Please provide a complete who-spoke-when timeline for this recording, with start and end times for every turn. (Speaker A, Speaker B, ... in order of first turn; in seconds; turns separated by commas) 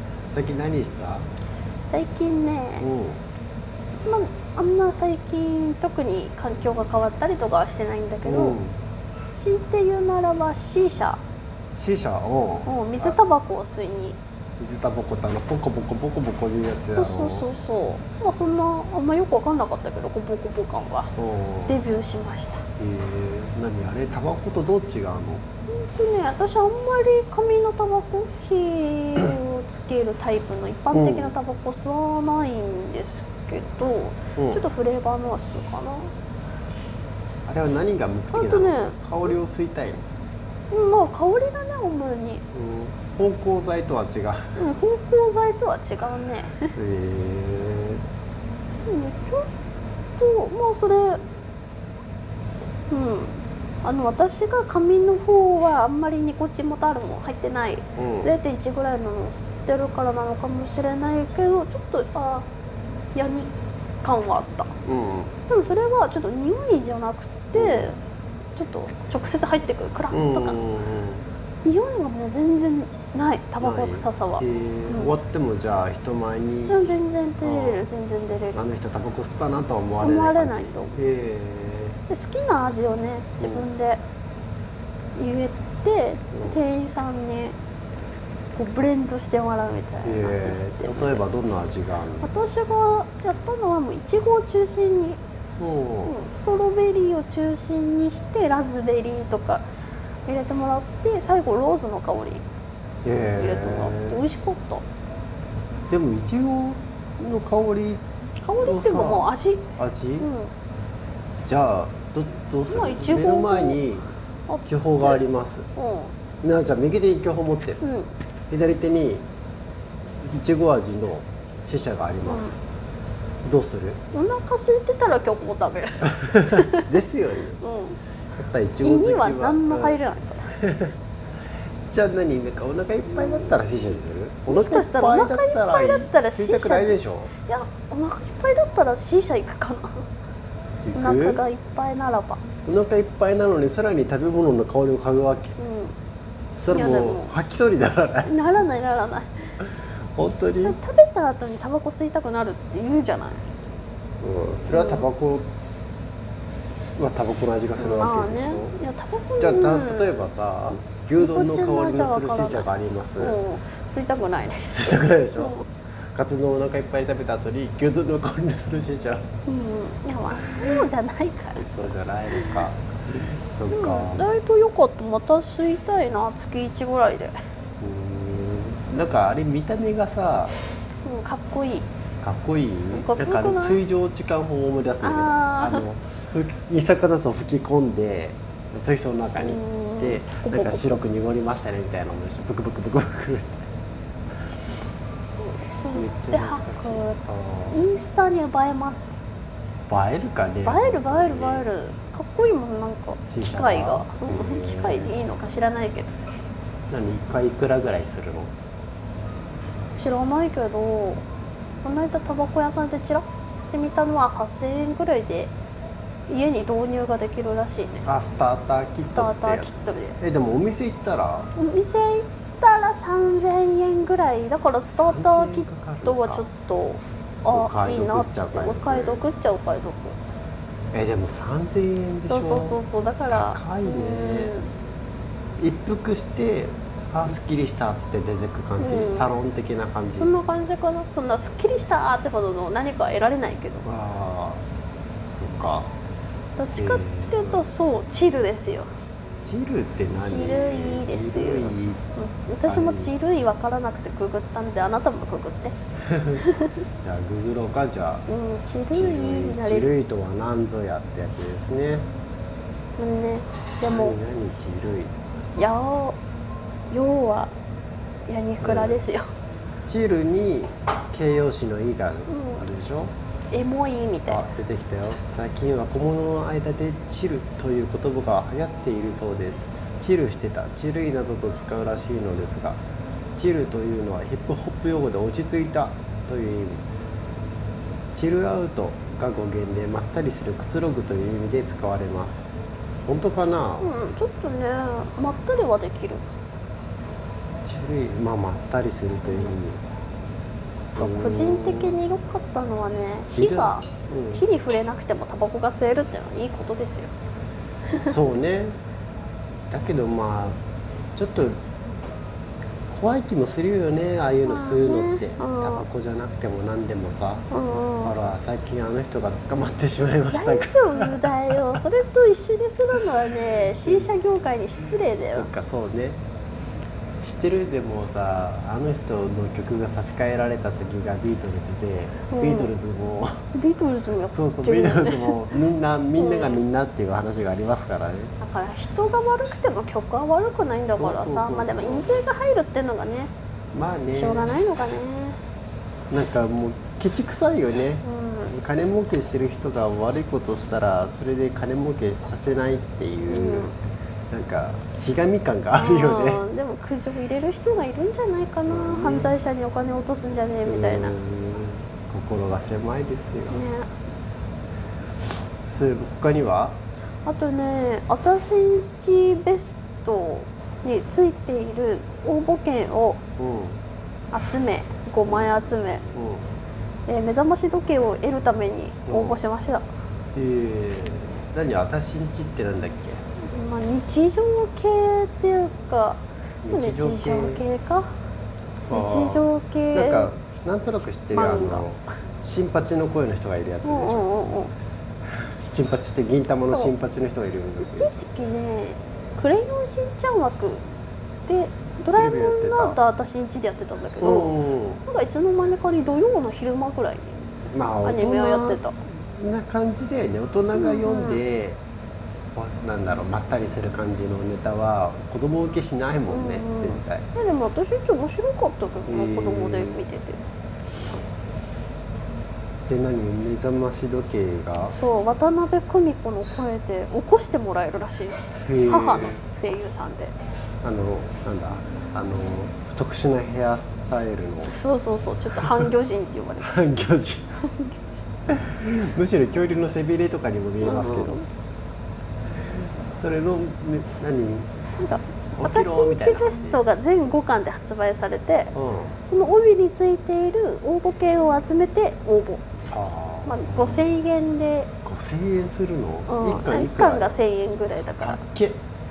Speaker A: 0.3-1.3, Speaker B: 1.8-2.9, Speaker A: 2.8-3.2, Speaker B: 4.0-8.6, Speaker A: 8.2-8.8, Speaker B: 9.3-11.2, Speaker A: 11.7-13.2, Speaker B: 12.7-14.2, Speaker A: 14.6-17.5, Speaker B: 16.9-21.1, Speaker A: 21.2-21.8, Speaker B: 21.7-22.6, Speaker A: 22.8-25.4, Speaker B: 25.7-36.1, Speaker A: 30.9-31.3, Speaker A: 34.4-34.6, Speaker A: 37.5-40.0, Speaker B: 38.3-39.1, Speaker B: 40.7-42.4, Speaker A: 42.5-44.6, Speaker B: 44.5-46.7, Speaker A: 46.6-48.0, Speaker B: 48.9-49.5, Speaker B: 50.2-51.2, Speaker B: 52.9-62.5, Speaker A: 58.0-58.4, Speaker B: 63.1-63.5, Speaker B: 64.0-64.7, Speaker A: 64.8-65.3, Speaker B: 65.5-68.0, Speaker A: 67.5-67.9, Speaker B: 68.5-70.6, Speaker A: 70.1-71.2, Speaker B: 71.6-75.2, Speaker A: 73.6-76.8, Speaker B: 76.7-78.6, Speaker A: 77.4-77.8, Speaker A: 78.5-82.0, Speaker B: 80.0-81.0, Speaker B: 82.1-84.0, Speaker A: 83.4-83.7, Speaker B: 85.2-87.5, Speaker A: 86.3-86.6, Speaker B: 88.5-91.2, Speaker A: 90.0-92.3, Speaker B: 92.2-95.2, Speaker A: 95.6-96.2, Speaker B: 96.0-99.7, Speaker B: 100.3-102.4, Speaker A: 103.0-104.2, Speaker B: 103.4-104.8, Speaker A: 105.9-108.0, Speaker B: 108.4-109.6, Speaker A: 108.6-110.3, Speaker B: 110.2-110.5, Speaker A: 111.5-115.7, Speaker B: 112.7-113.8, Speaker B: 114.5-115.2, Speaker B: 115.8-116.1, Speaker A: 116.4-117.8, Speaker B: 117.8-118.1, Speaker A: 118.5-119.2, Speaker A: 120.2-122.6, Speaker B: 122.2-122.5, Speaker A: 123.4-124.0, Speaker B: 124.1-126.9, Speaker A: 126.2-127.6, Speaker B: 127.6-128.0, Speaker A: 128.4-130.9, Speaker B: 128.8-130.5, Speaker A: 131.9-137.3, Speaker B: 133.2-133.4, Speaker B: 134.5-140.1, Speaker A: 140.8-141.4, Speaker B: 140.9-142.4, Speaker A: 142.6-145.6, Speaker B: 145.6-145.9, Speaker A: 146.6-148.3, Speaker B: 146.7-147.4, Speaker B: 148.2-149.3, Speaker A: 149.6-150.8, Speaker B: 150.6-153.5, Speaker A: 154.2-155.5, Speaker B: 154.7-155.1, Speaker A: 156.9-158.8, Speaker B: 157.8-160.2, Speaker A: 159.4-163.4, Speaker B: 161.2-165.7, Speaker A: 164.7-165.6, Speaker A: 166.1-169.3, Speaker B: 169.4-172.6, Speaker A: 170.3-170.8, Speaker A: 171.6-174.3, Speaker B: 173.7-177.3, Speaker A: 177.8-180.5, Speaker B: 181.0-181.9, Speaker A: 182.2-193.7, Speaker B: 182.9-183.8, Speaker B: 185.0-185.8, Speaker B: 189.4-190.9, Speaker B: 195.4-199.2, Speaker A: 195.9-197.8, Speaker A: 199.9-201.7, Speaker B: 200.6-206.1, Speaker A: 203.3-205.2, Speaker A: 206.9-208.5, Speaker B: 209.9-211.2, Speaker B: 211.8-215.5, Speaker B: 216.3-218.0, Speaker A: 218.0-221.5, Speaker B: 219.0-220.2, Speaker B: 221.6-230.2, Speaker A: 224.9-226.4, Speaker A: 227.5-229.2, Speaker A: 230.9-234.5, Speaker B: 232.3-234.7, Speaker A: 235.6-240.3, Speaker B: 238.8-239.3, Speaker B: 240.2-243.8, Speaker A: 243.8-244.6, Speaker A: 245.3-245.9, Speaker B: 246.6-248.9, Speaker A: 246.7-247.7, Speaker A: 249.4-252.0, Speaker B: 250.2-255.8, Speaker A: 252.6-253.1, Speaker A: 256.0-256.4, Speaker B: 256.4-256.7, Speaker A: 257.0-258.2, Speaker B: 258.3-259.9, Speaker A: 258.9-262.1, Speaker B: 263.0-264.2, Speaker A: 263.9-265.1, Speaker B: 265.6-266.2, Speaker B: 266.9-267.5, Speaker B: 268.3-269.3, Speaker A: 268.6-269.0, Speaker A: 269.9-273.1, Speaker B: 272.3-272.6, Speaker B: 273.5-274.4, Speaker A: 274.3-282.8, Speaker A: 283.4-286.8, Speaker A: 288.1-292.5, Speaker A: 293.1-293.9, Speaker B: 293.8-296.2, Speaker A: 297.6-299.8, Speaker A: 300.9-302.0, Speaker B: 300.9-307.1, Speaker A: 303.3-304.4, Speaker A: 308.1-308.8, Speaker A: 309.7-310.6, Speaker A: 311.1-311.6, Speaker A: 312.9-321.8, Speaker B: 314.4-315.8, Speaker B: 317.5-318.1, Speaker B: 320.3-325.5, Speaker A: 323.7-324.1, Speaker A: 325.1-326.2, Speaker A: 327.2-333.4, Speaker B: 332.3-332.7, Speaker B: 333.5-335.4, Speaker A: 334.3-338.3, Speaker B: 336.2-336.6, Speaker B: 338.4-343.3, Speaker A: 340.9-342.1, Speaker A: 343.7-344.6, Speaker B: 344.1-345.4, Speaker A: 346.1-353.7, Speaker B: 348.0-348.5, Speaker B: 353.3-353.7, Speaker A: 354.3-356.4, Speaker B: 355.7-361.1, Speaker A: 358.6-359.4, Speaker A: 360.6-363.6, Speaker B: 363.5-363.9, Speaker A: 365.6-366.8, Speaker B: 367.2-373.2, Speaker A: 373.4-373.8, Speaker B: 374.3-376.0, Speaker A: 375.2-375.5, Speaker A: 376.1-376.4, Speaker B: 377.1-379.8, Speaker A: 379.1-379.4, Speaker A: 380.3-383.2, Speaker B: 383.4-388.1, Speaker A: 386.6-387.6, Speaker A: 388.9-394.3, Speaker B: 388.9-390.3, Speaker B: 391.3-391.8, Speaker B: 393.8-394.7, Speaker A: 395.4-398.2, Speaker B: 397.8-400.8, Speaker B: 401.4-407.4, Speaker A: 402.1-403.0, Speaker A: 404.2-405.0, Speaker A: 407.7-411.8, Speaker B: 408.0-408.9, Speaker B: 410.7-411.4, Speaker A: 412.5-417.3, Speaker B: 416.3-420.4, Speaker A: 419.1-420.0, Speaker A: 422.9-424.9, Speaker B: 424.9-430.3, Speaker A: 428.6-429.4, Speaker A: 430.8-434.8, Speaker B: 434.6-436.8, Speaker A: 435.6-435.9, Speaker A: 436.6-437.6, Speaker B: 437.6-438.2, Speaker A: 438.5-441.4, Speaker B: 440.8-441.4, Speaker A: 443.1-444.7, Speaker B: 445.0-448.7, Speaker A: 445.5-446.8, Speaker A: 448.7-449.2, Speaker B: 449.2-452.6, Speaker A: 452.9-454.1, Speaker B: 453.5-454.9, Speaker A: 455.0-457.4, Speaker B: 456.3-458.4, Speaker A: 458.2-458.8